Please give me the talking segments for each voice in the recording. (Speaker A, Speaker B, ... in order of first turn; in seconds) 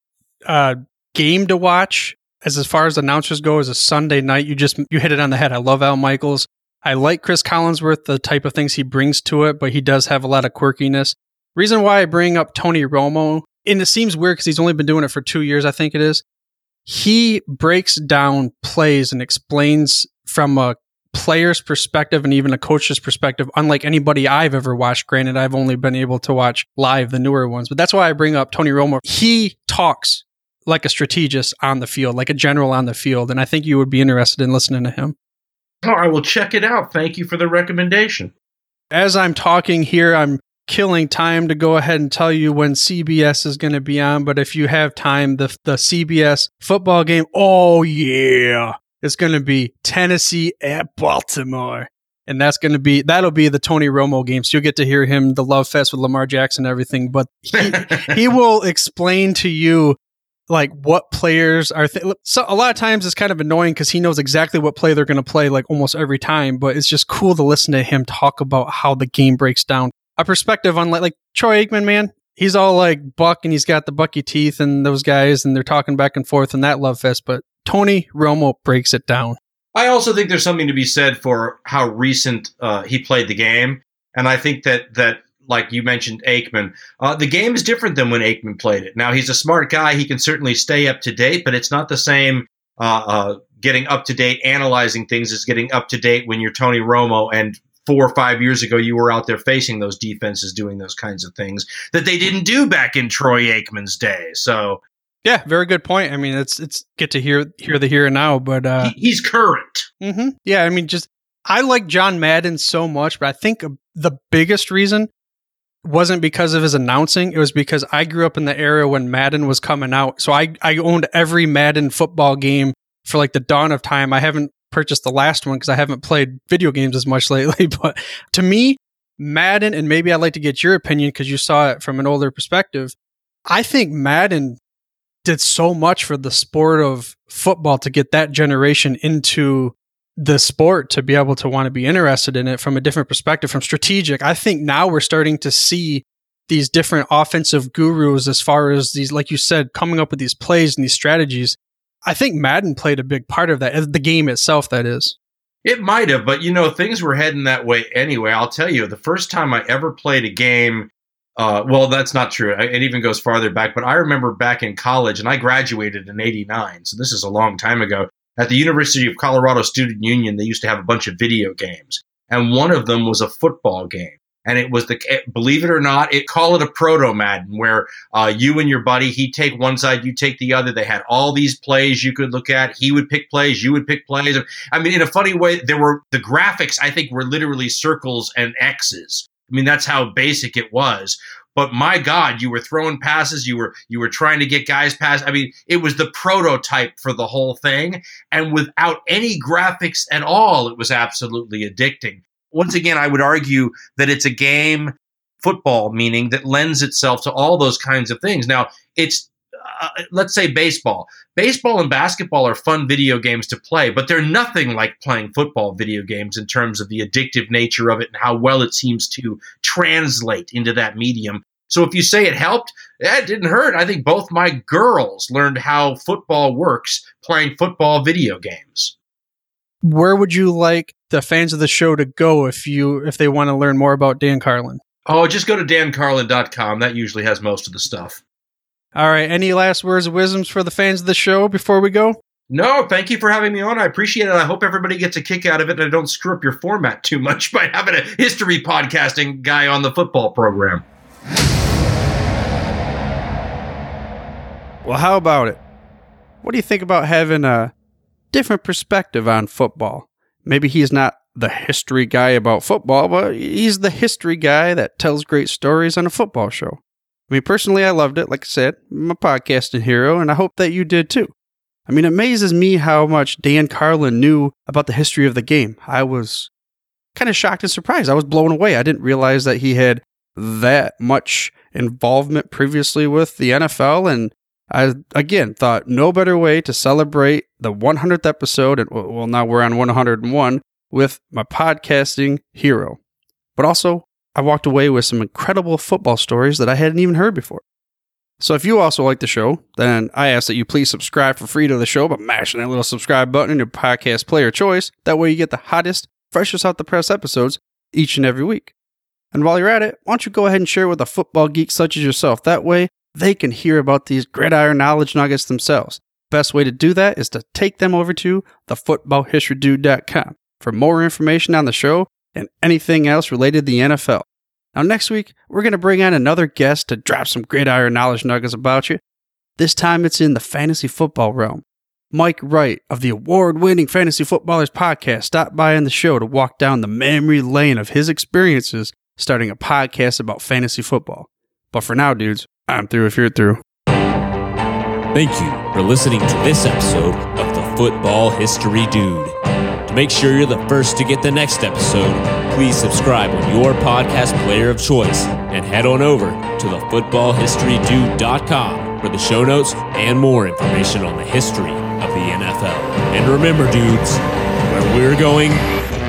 Speaker A: 0.5-16.2, 16.9-35.1, 38.9-60.0, 60.5-79.4, 105.2-108.9, 110.0-115.1, 115.8-132.9, 133.5-134.6, 135.2-155.1, 229.8-234.8, 238.9-242.2
Speaker B: 35.8-38.3, 57.6-58.1, 79.7-104.8, 108.8-109.9, 155.6-228.9, 235.1-238.2, 242.5-250.8
Speaker C: 254.8-255.6, 256.4-257.7, 258.3-271.3, 271.9-276.5, 277.1-293.0, 293.6-297.6, 298.4-308.7, 309.3-329.0, 329.6-343.6
Speaker D: 345.1-365.6